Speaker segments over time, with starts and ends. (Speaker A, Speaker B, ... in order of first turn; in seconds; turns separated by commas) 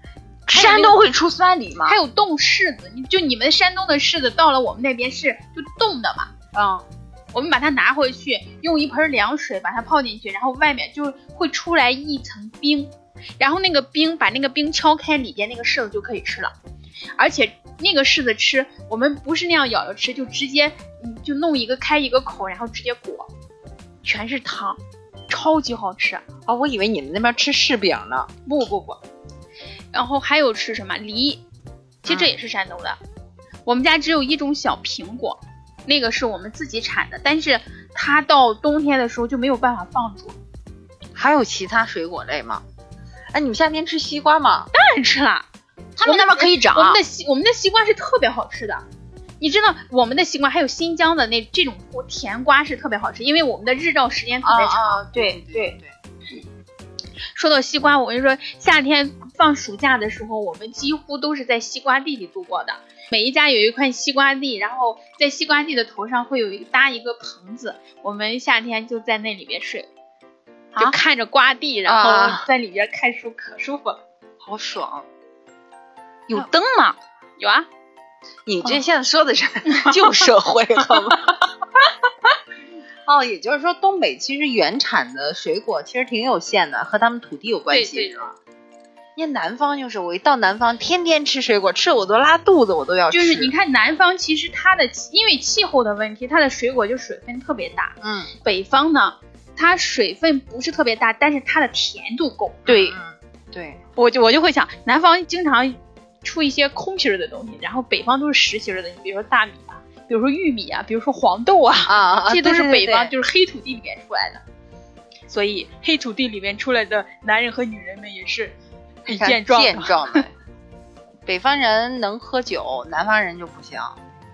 Speaker A: 0.5-2.0, Speaker B: 0.5-1.0, Speaker B: 1.9-6.3, Speaker A: 6.5-6.8, Speaker B: 7.3-16.5, Speaker B: 17.2-23.3, Speaker B: 24.0-26.2, Speaker C: 26.5-28.3, Speaker B: 28.4-29.0, Speaker B: 29.9-31.4, Speaker B: 32.0-33.0, Speaker C: 32.0-32.3, Speaker B: 33.6-40.4, Speaker C: 41.1-42.6, Speaker C: 43.3-44.7, Speaker B: 44.7-45.5, Speaker A: 46.0-47.0, Speaker B: 46.0-48.8, Speaker B: 49.4-55.0, Speaker C: 54.4-55.9, Speaker A: 55.1-55.8, Speaker B: 57.3-69.9, Speaker B: 70.8-74.0, Speaker C: 71.8-72.5, Speaker C: 74.4-75.0, Speaker A: 76.3-77.0, Speaker B: 77.4-77.7, Speaker C: 78.5-81.4, Speaker C: 83.0-88.3, Speaker B: 87.7-88.2, Speaker C: 89.2-93.5, Speaker B: 93.1-103.0, Speaker C: 98.0-98.3, Speaker C: 102.7-103.8, Speaker B: 104.0-114.4, Speaker C: 111.8-113.1, Speaker B: 115.3-120.2, Speaker C: 119.1-120.3, Speaker C: 121.2-124.0